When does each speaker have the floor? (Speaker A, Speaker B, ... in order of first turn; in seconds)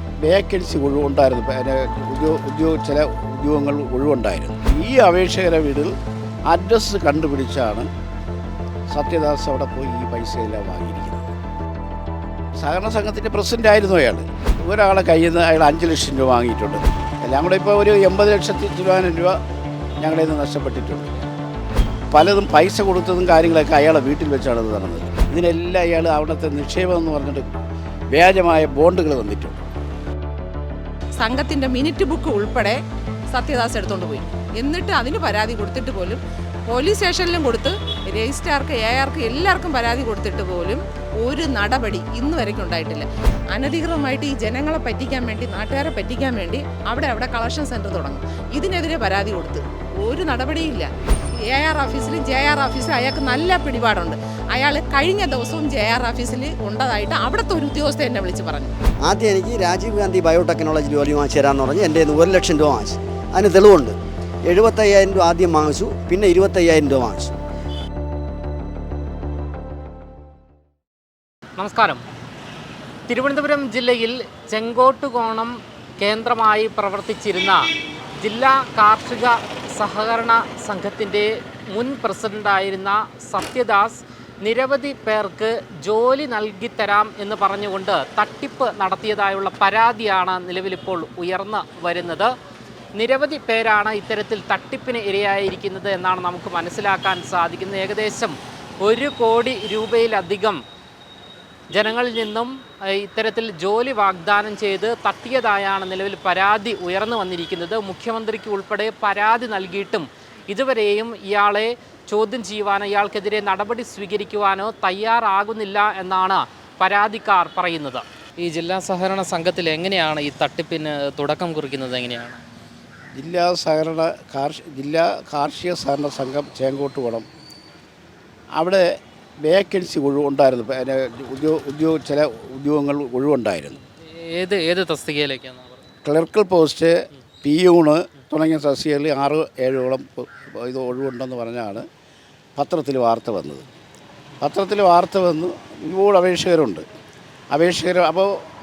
Speaker A: 0.2-5.9, 6.5-7.9, 8.9-11.3, 12.6-19.4, 20.0-21.1, 22.1-27.5, 28.1-29.6, 123.2-127.2, 128.6-133.8, 136.0-141.8, 142.6-143.6, 144.4-146.8, 147.5-148.4
Speaker B: 31.2-50.9, 51.4-58.7
Speaker C: 59.0-67.3
Speaker D: 71.6-72.0, 73.1-77.7, 78.2-92.3, 93.0-100.6, 101.7-122.4, 134.0-135.8